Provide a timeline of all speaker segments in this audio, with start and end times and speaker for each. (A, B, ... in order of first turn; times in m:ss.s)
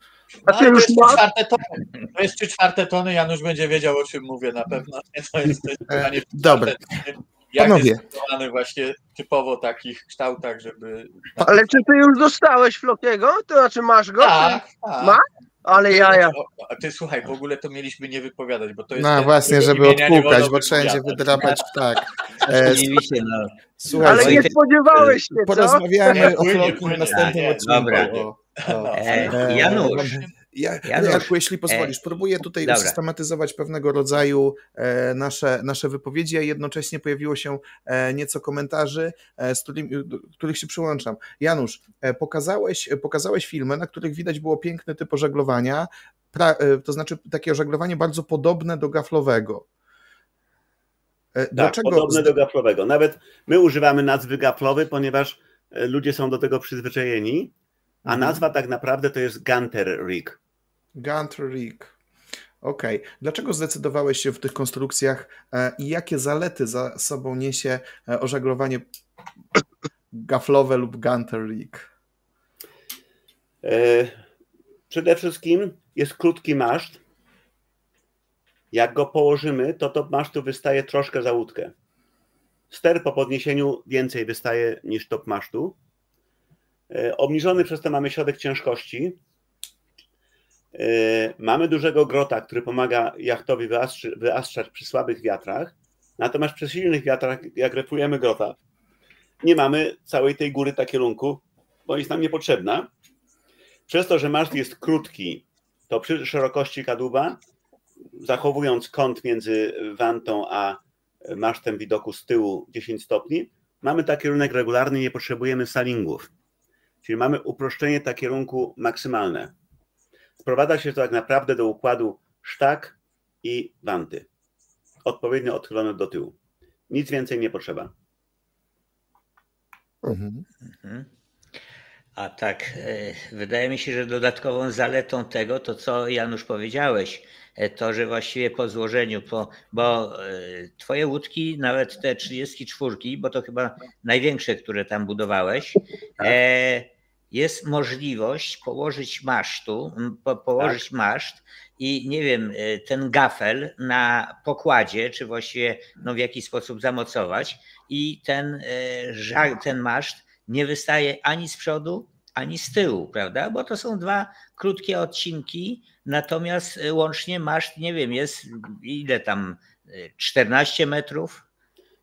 0:00.5-0:11.8 A
0:00.5-0:01.2 B
0:05.9-0:06.7 C
0:07.6-0:08.0 C
0:11.4-0:16.3 B
0:14.2-0:15.2 A
0:15.7-0:21.7 A
0:19.0-0:22.9 C
0:22.4-0:24.5 D
0:23.8-0:49.7 C
0:24.0-0:26.3 B
0:26.0-0:30.3 A
0:27.1-0:28.2 D
0:28.9-0:30.2 D
0:30.8-0:32.0 D
0:32.6-0:33.0 D
0:51.3-0:52.3 C
0:51.5-0:57.5 E
0:58.0-0:58.4 C
0:58.0-1:00.4 E
1:01.0-1:01.9 C
1:02.6-1:08.8 C
1:10.1-1:11.9 C
1:13.6-1:14.2 E
1:14.9-1:17.0 E
1:18.7-1:21.7 E
1:22.7-1:25.8 E
1:26.9-1:29.2 E
1:30.7-1:38.6 E
1:39.4-1:42.9 E
1:43.9-1:47.4 E
1:48.2-1:56.3 E
1:57.0-1:59.5 E
2:00.4-2:04.2 E
2:05.0-2:06.3 E
2:06.9-2:07.9 E
2:10.0-2:10.4 C
2:10.7-2:11.1 D
2:12.2-2:51.4 D